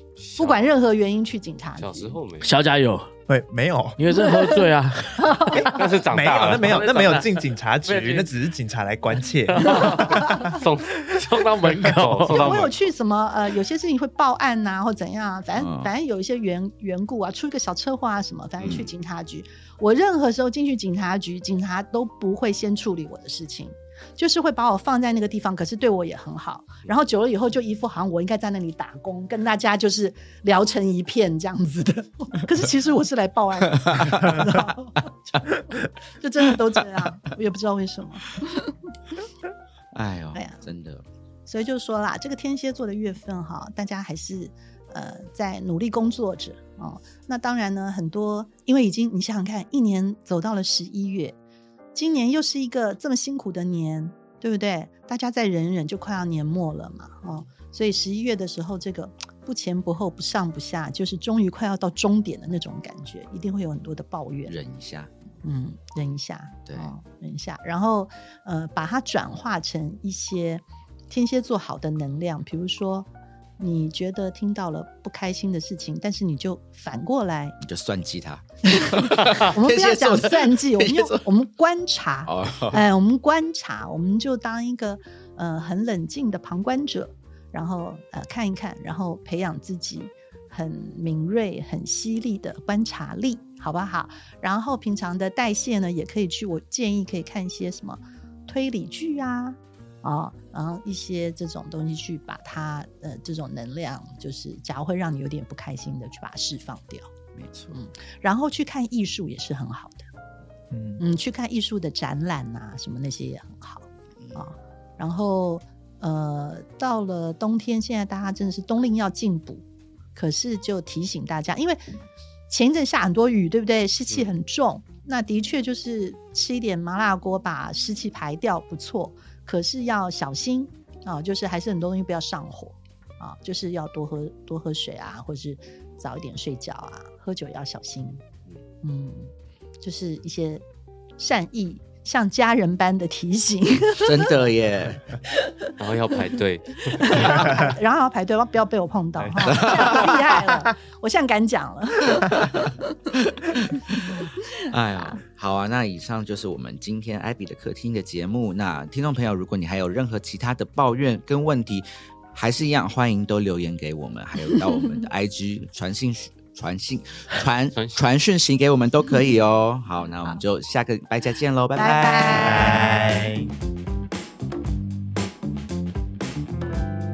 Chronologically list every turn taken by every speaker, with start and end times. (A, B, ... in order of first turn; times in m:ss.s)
0:00.2-0:00.7 A
0:00.4-0:02.2 B
0:01.8-0:02.5 A
0:02.4-0:03.1 C
0:03.3-0:04.0 D
0:04.0-0:05.8 C
0:05.2-0:05.7 B
0:05.5-0:10.6 D
0:05.6-0:07.3 A
0:06.5-0:07.3 C
0:07.8-0:08.3 C
0:09.6-0:12.7 C
0:09.6-0:11.2 A
0:11.8-0:12.8 A
0:12.3-0:38.7 B
0:15.6-0:15.9 E
0:18.6-0:18.8 A
0:33.9-0:34.4 E
0:39.9-0:41.0 E
0:40.3-0:40.6 B
0:41.5-0:51.4 B
0:51.9-1:04.5 B
1:04.5-1:05.1 E
1:05.4-1:17.6 B
1:06.6-1:06.9 E
1:17.6-1:21.2 E
1:18.7-1:47.1 B
1:22.2-1:22.8 E
1:47.3-1:47.7 E
1:47.7-1:50.0 B
1:50.7-1:51.0 D
1:51.0-1:59.6 B
2:00.1-2:01.8 B
2:02.5-2:18.2 B
2:18.8-2:19.3 B
2:19.8-2:20.6 B
2:21.2-2:24.3 B
2:24.0-2:25.0 E
2:25.8-2:27.6 A
2:26.9-2:32.8 B
2:29.2-2:30.1 A
2:29.4-2:30.2 E
2:33.4-2:33.8 E
2:34.7-2:53.0 E
2:47.7-2:48.0 A
2:51.8-2:53.1 B
2:52.4-2:53.5 D